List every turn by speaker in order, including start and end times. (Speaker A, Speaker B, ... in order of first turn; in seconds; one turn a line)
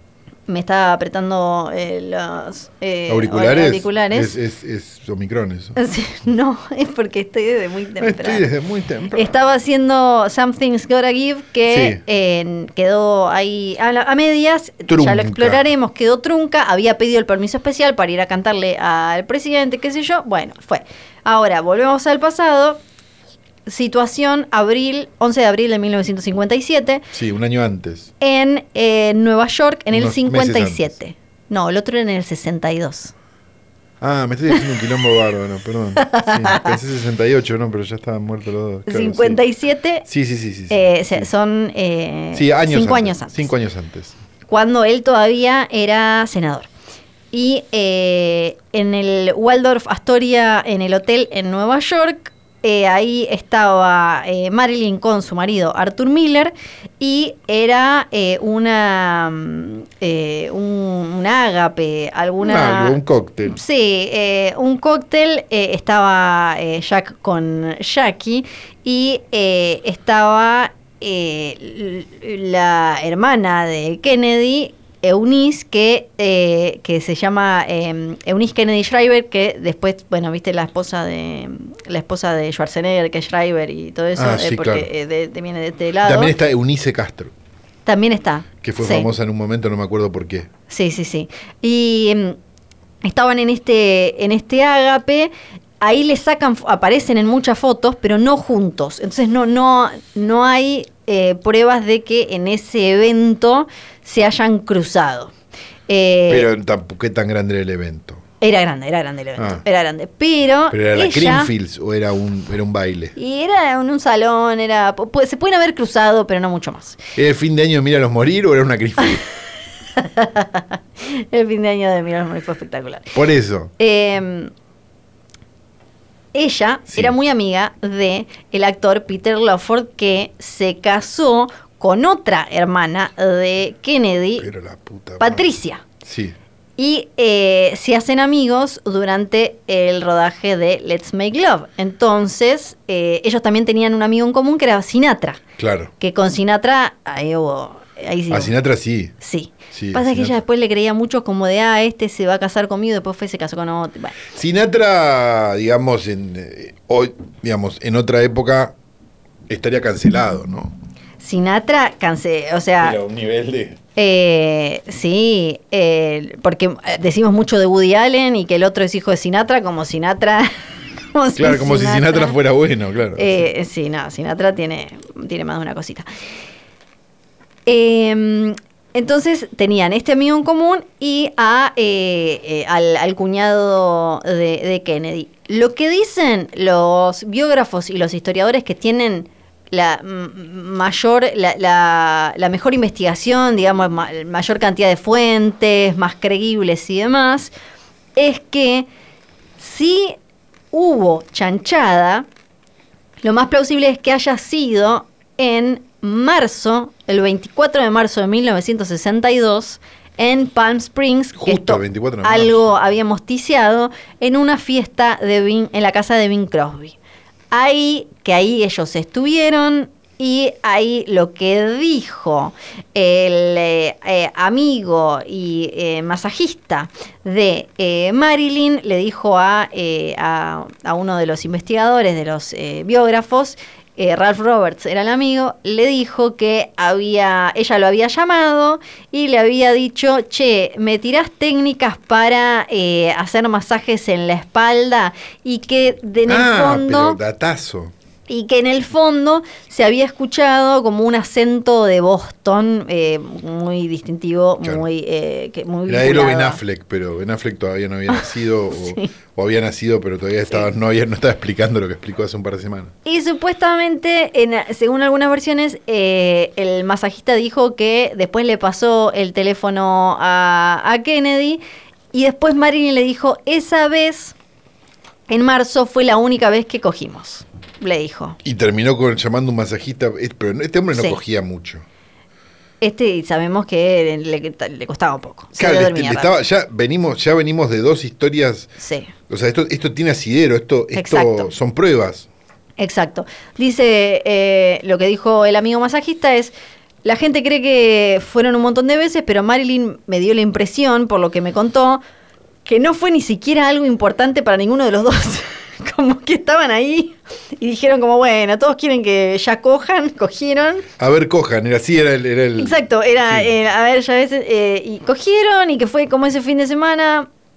Speaker A: 0.5-4.4
Speaker B: 3.1-5.8
Speaker A: 5.8-8.4
Speaker B: 8.0-9.3
Speaker A: 9.1-22.8
Speaker B: 11.7-12.0
Speaker B: 14.9-15.6
Speaker A: 23.7-27.1
Speaker B: 27.1-28.1
Speaker A: 28.2-33.1
Speaker B: 29.9-30.9
Speaker B: 34.0-39.4
Speaker A: 36.0-36.7
Speaker A: 38.9-40.1
Speaker B: 40.1-41.3
Speaker A: 40.7-43.5
Speaker B: 42.3-44.2
Speaker A: 44.5-46.7
Speaker A: 47.3-86.3
Speaker B: 62.4-63.6
Speaker B: 84.2-84.9
Speaker B: 86.0-87.3
Speaker A: 87.9-89.1
Speaker B: 88.6-90.5
Speaker A: 90.7-92.4
Speaker A: 93.0-105.3
Speaker A: 105.9-106.5
Speaker B: 106.3-108.2
Speaker A: 108.4-111.5
Speaker B: 109.4-109.6
Speaker B: 110.7-113.1
Speaker A: 113.2-117.0
Speaker B: 117.2-119.2
Speaker A: 120.0-123.1
Speaker B: 123.1-123.7
Speaker A: 123.8-124.5
Speaker A: 126.3-134.5
Speaker B: 134.4-135.5
Speaker A: 135.2-135.8
Speaker B: 136.0-136.3
Speaker A: 136.8-145.4
Speaker B: 145.6-145.9
Speaker A: 146.0-148.5
Speaker B: 148.3-149.1
Speaker A: 149.2-154.2
Speaker B: 149.7-150.4
Speaker B: 154.3-158.7
Speaker B: 159.5-160.7
Speaker A: 161.2-163.0
Speaker B: 162.8-163.8
Speaker A: 163.9-170.5
Speaker A: 171.1-172.4
Speaker B: 171.4-173.4
Speaker A: 173.2-176.1
Speaker A: 177.7-197.5
Speaker A: 198.2-198.9
Speaker A: 199.6-200.2
Speaker A: 200.7-202.3
Speaker A: 203.2-216.9
Speaker B: 211.4-212.7
Speaker A: 217.5-247.2
Speaker B: 246.3-247.9
Speaker A: 248.3-256.6
Speaker B: 255.9-262.9
Speaker A: 258.1-259.1
Speaker A: 263.1-271.6
Speaker A: 272.1-274.4
Speaker A: 275.3-278.4
Speaker B: 278.4-281.9
Speaker A: 280.9-281.2
Speaker A: 282.8-286.4
Speaker B: 285.6-288.7
Speaker A: 288.8-289.1
Speaker B: 289.3-292.3
Speaker A: 290.9-291.5
Speaker A: 292.8-296.5
Speaker A: 297.0-302.0
Speaker A: 302.6-310.9
Speaker B: 311.0-313.5
Speaker A: 312.6-317.3